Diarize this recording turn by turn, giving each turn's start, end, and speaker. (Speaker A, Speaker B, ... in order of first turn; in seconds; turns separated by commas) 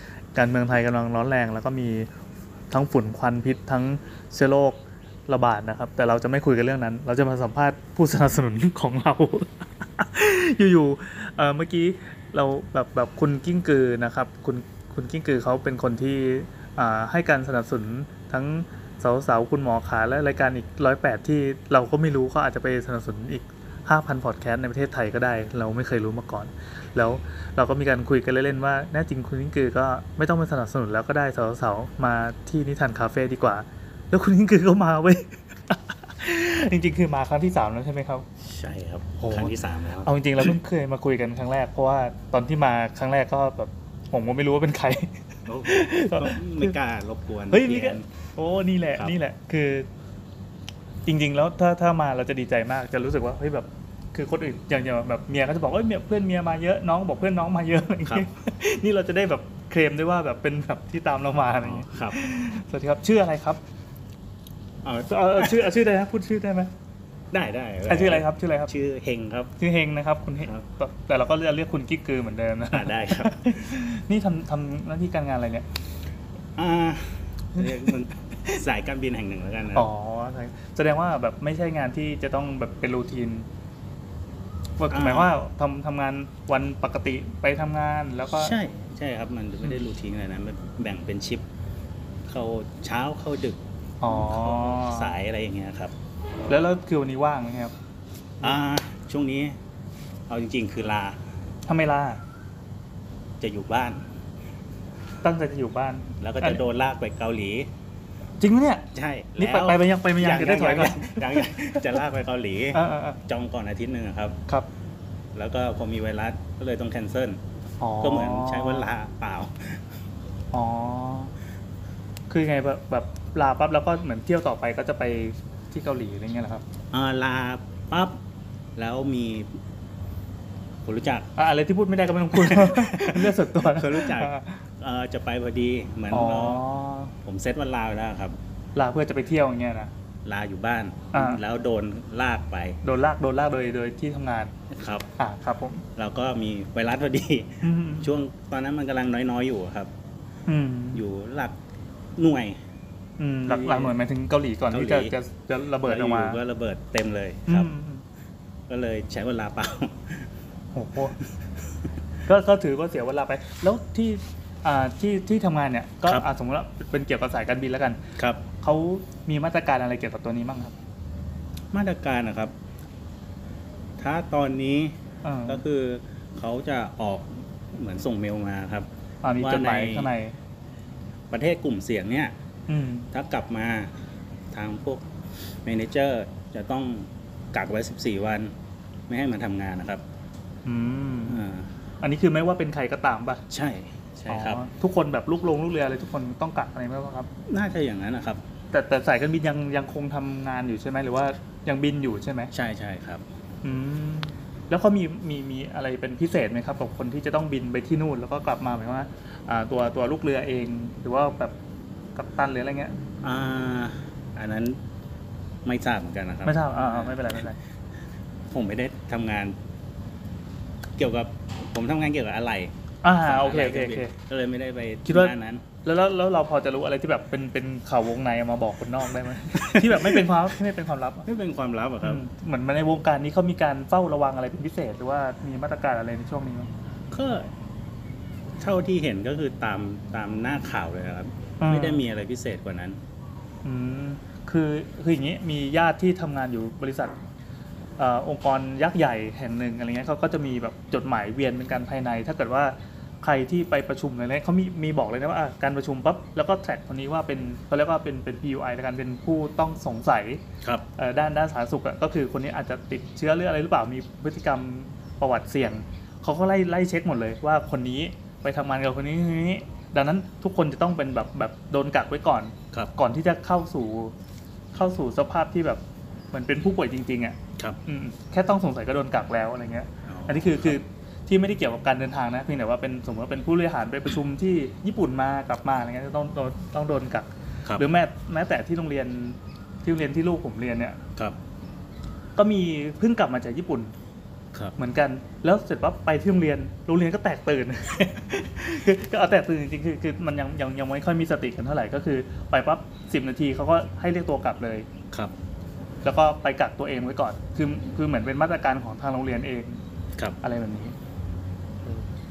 Speaker A: 0.3-2.1, Speaker A: 2.7-38.2, Speaker B: 38.4-40.5, Speaker A: 39.3-46.7, Speaker B: 45.5-48.1, Speaker A: 47.5-49.9, Speaker A: 51.0-63.6, Speaker B: 61.5-62.2, Speaker B: 64.8-65.7, Speaker A: 65.0-66.7, Speaker B: 67.3-69.5, Speaker A: 67.9-68.7, Speaker A: 69.6-75.6, Speaker B: 72.7-73.6, Speaker B: 76.5-79.9, Speaker A: 77.6-78.0, Speaker A: 79.7-83.5, Speaker A: 84.8-88.5, Speaker B: 84.9-85.3, Speaker B: 88.3-91.5, Speaker B: 92.2-95.9, Speaker A: 94.0-95.1, Speaker A: 96.5-97.7, Speaker B: 98.4-99.6, Speaker B: 100.3-101.2, Speaker A: 101.7-102.2, Speaker B: 103.4-104.0, Speaker A: 105.2-106.6, Speaker B: 106.2-107.7, Speaker A: 108.4-112.0, Speaker B: 108.9-114.4, Speaker A: 112.7-113.2, Speaker B: 115.3-117.4, Speaker A: 117.8-118.9, Speaker B: 118.0-119.8, Speaker A: 120.5-121.3, Speaker A: 122.3-126.6, Speaker B: 126.9-128.2, Speaker B: 128.8-129.5, Speaker B: 130.8-131.3, Speaker A: 131.3-134.6, Speaker B: 132.3-136.6, Speaker A: 136.1-137.1, Speaker B: 137.2-138.4, Speaker A: 138.7-139.9, Speaker B: 140.2-142.8, Speaker A: 141.1-141.4, Speaker A: 142.8-144.5, Speaker B: 144.7-145.1, Speaker A: 145.2-145.8, Speaker B: 146.0-149.9, Speaker A: 147.6-148.1, Speaker A: 150.5-151.0, Speaker B: 150.9-151.6, Speaker B: 152.2-152.6, Speaker A: 153.2-156.4, Speaker B: 153.5-153.9, Speaker B: 154.7-155.1, Speaker B: 155.8-157.7, Speaker A: 157.5-158.0, Speaker B: 158.7-160.3, Speaker A: 160.7-161.2, Speaker A: 162.2-168.0, Speaker B: 168.2-168.4, Speaker A: 168.6-170.7, Speaker B: 171.7-172.5, Speaker B: 174.0-174.9, Speaker A: 175.2-175.6, Speaker B: 175.5-178.9, Speaker A: 179.2-180.3, Speaker B: 179.4-180.1, Speaker B: 181.3-182.3, Speaker A: 182.7-183.1, Speaker B: 183.1-183.9, Speaker B: 184.5-188.5, Speaker B: 189.1-190.0, Speaker A: 190.6-191.4, Speaker B: 191.3-191.7, Speaker A: 192.0-193.4, Speaker B: 193.5-194.6, Speaker A: 194.3-197.3, Speaker B: 197.5-198.4, Speaker A: 198.7-202.5, Speaker B: 202.5-203.2, Speaker A: 203.6-211.6, Speaker A: 212.1-213.0, Speaker B: 213.2-214.8, Speaker B: 215.6-217.4, Speaker A: 216.4-217.6, Speaker B: 218.5-219.6, Speaker B: 221.0-225.6, Speaker A: 223.0-224.1, Speaker A: 225.1-231.3, Speaker B: 229.5-230.4, Speaker B: 231.2-232.2, Speaker A: 232.0-236.7, Speaker B: 237.1-237.5, Speaker B: 238.6-243.0, Speaker A: 241.6-242.0, Speaker A: 243.6-247.1, Speaker A: 248.0-260.4, Speaker A: 260.9-274.1, Speaker A: 274.7-291.0, Speaker B: 280.1-280.8, Speaker A: 292.4-293.9, Speaker A: 294.8-304.9, Speaker A: 306.0-309.8, Speaker A: 310.4-310.9